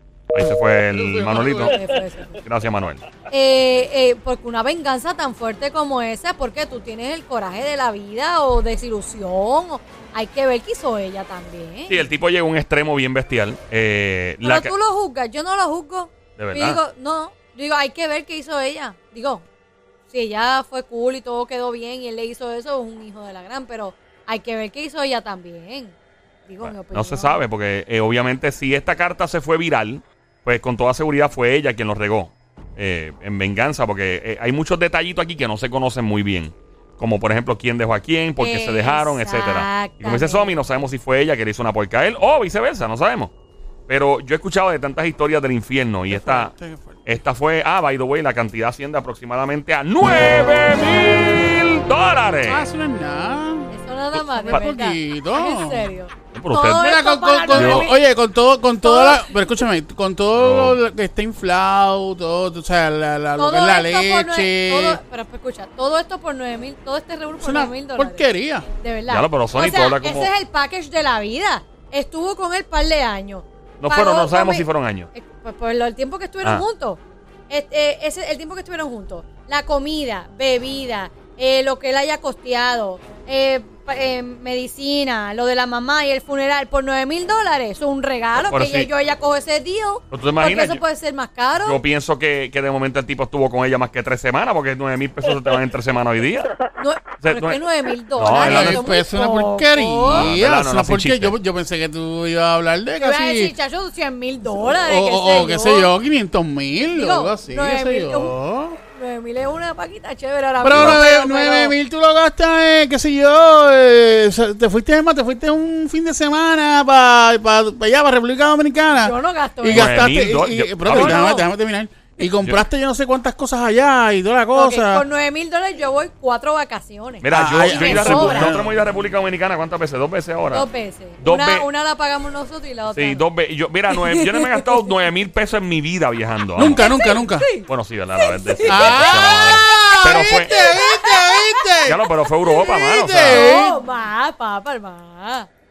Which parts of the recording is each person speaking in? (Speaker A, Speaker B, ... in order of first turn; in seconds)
Speaker A: 0.3-1.8, 2.4-3.0, 11.9-14.7, 16.4-16.8, 26.6-43.3, 43.9-46.5, 47.0-52.7, 56.3-56.9, 57.5-57.9, 60.4-60.8, 69.1-70.3, 73.8-75.1, 88.5-88.9, 90.1-90.8, 91.6-96.5, 97.2-97.6, 98.2-98.8, 100.1-101.3, 110.7-111.0, 119.7-121.2, 122.2-122.6, 127.2-130.7, 131.2-131.7, 132.9-136.8, 137.6-140.5, 141.9-143.5
Speaker B: 0.9-1.7, 46.1-47.0, 52.4-55.9, 56.8-65.0, 67.4-68.7, 98.3-103.5, 104.5-108.8, 110.6-125.0, 127.3-129.0, 136.6-137.5, 138.7-142.0, 142.6-143.8
Speaker C: 1.6-2.4, 3.3-12.0, 14.4-19.4, 20.1-25.9, 26.5-27.4, 38.4-40.5, 53.7-58.0, 58.8-59.5, 63.4-68.3, 68.8-91.8, 96.8-100.3, 103.0-105.9, 106.9-111.7, 118.9-120.1, 120.9-121.5, 124.5-128.6, 130.5-133.2, 133.9-134.7, 136.7-139.4, 140.5-141.6, 143.2-145.5